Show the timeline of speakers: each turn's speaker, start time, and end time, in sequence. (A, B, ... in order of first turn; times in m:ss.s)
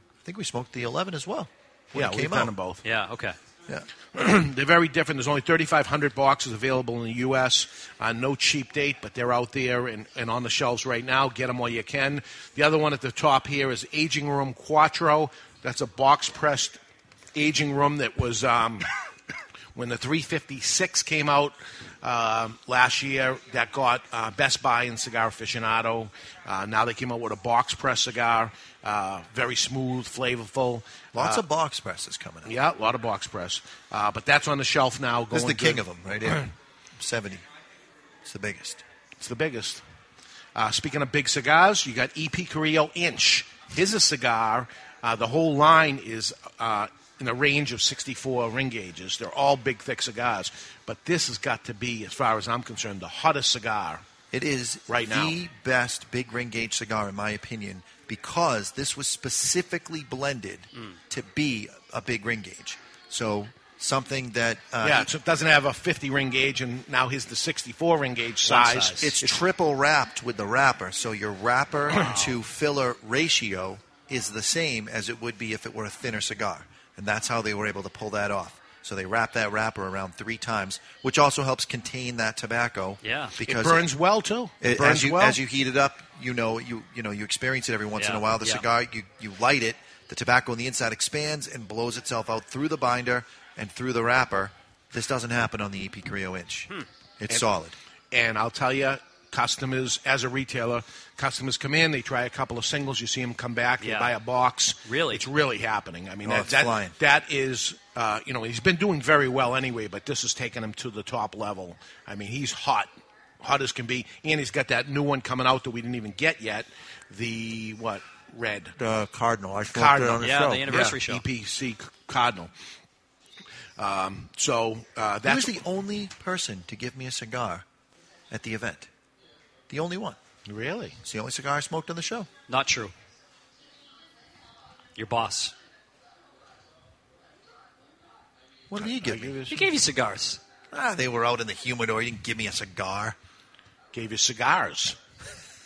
0:00.2-0:02.5 A
0:01.9-0:02.8 B
0:02.8-0:03.4 C
0:04.1-0:16.8 B
0:17.4-0:18.9 B
0:19.8-0:31.4 B
0:31.1-0:32.5 A
0:32.4-0:36.5 B
0:35.3-0:36.4 A
0:37.0-0:37.4 A
0:38.2-0:38.8 A
0:39.2-0:39.8 B
0:40.6-0:54.0 B
0:54.3-1:05.1 A
0:54.9-0:55.4 B
1:04.8-1:09.4 B
1:08.5-1:09.0 C
1:08.9-1:23.9 A
1:12.0-1:12.3 C
1:23.0-1:23.3 C
1:23.4-1:25.4 B
1:24.6-1:37.8 A
1:28.0-1:28.6 C
1:38.1-1:58.8 B
1:43.8-1:44.1 C
1:44.8-1:45.2 C
1:46.2-1:47.0 A
1:58.8-2:00.9 A
1:59.7-2:02.5 B
2:00.2-2:01.2 C
2:03.8-2:05.6 B
2:05.2-2:07.6 A
2:08.3-2:08.9 A
2:09.7-2:10.2 A
2:10.5-2:11.0 B
2:11.0-2:12.3 A
2:12.5-2:12.9 C
2:15.0-2:15.5 C
2:18.7-2:19.4 A
2:18.8-2:19.7 B
2:19.5-2:20.4 C
2:20.7-2:23.2 A
2:23.9-2:25.0 B